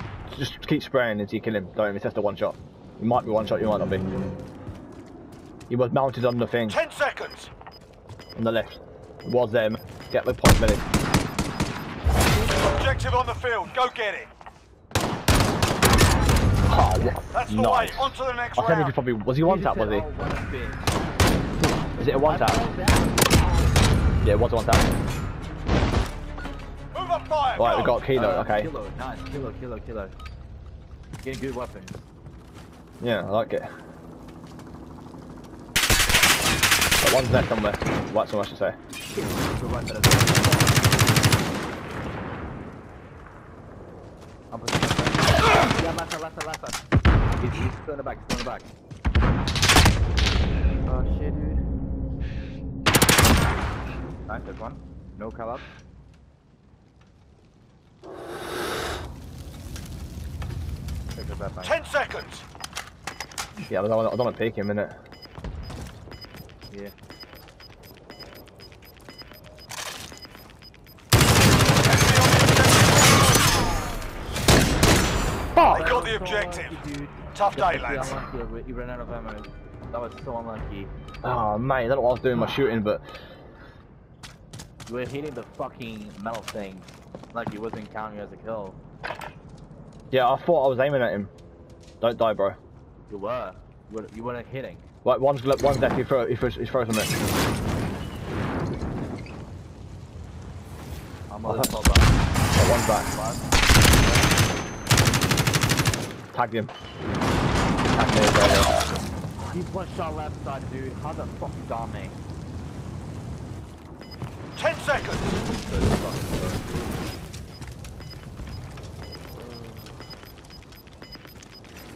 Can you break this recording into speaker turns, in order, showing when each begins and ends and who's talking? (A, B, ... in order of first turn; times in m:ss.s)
0:00.3-0:04.0 A
0:05.7-0:06.8 A
0:06.7-0:07.5 B
0:08.4-0:10.9 A
0:12.3-0:12.7 C
0:12.6-0:14.3 B
0:16.7-0:20.0 A
0:17.0-0:17.3 C
0:17.3-0:19.0 B
0:19.4-0:20.9 C
0:21.9-0:22.7 A
0:22.0-0:23.8 C
0:24.2-0:24.9 A
0:26.9-0:28.0 B
0:27.6-0:28.7 A
0:28.1-0:30.1 C
0:31.2-0:32.1 C
0:33.0-0:33.7 A
0:37.0-0:38.8 A
0:39.1-0:41.0 C
0:44.5-0:46.8 C
0:47.4-0:48.7 C
0:50.8-0:51.6 C
0:54.3-0:55.7 C
1:01.1-1:01.8 C
1:01.6-1:02.4 B
1:03.7-1:05.0 A
1:11.8-1:13.6 B
1:15.5-1:20.9 C
1:15.7-1:16.8 B
1:17.3-1:18.2 B
1:21.2-1:23.0 A
1:24.9-1:28.8 C
1:30.1-1:31.3 A
1:32.0-1:32.6 A
1:33.1-1:34.8 C
1:35.0-1:37.2 A
1:41.3-1:42.1 C
1:41.4-1:41.9 A
1:42.5-1:43.1 A
1:43.0-1:44.3 C
1:46.3-1:46.7 A
1:47.9-1:48.7 A
1:49.4-1:52.2 C
1:54.6-1:55.3 B
1:55.2-1:57.0 C
1:59.4-1:59.9 C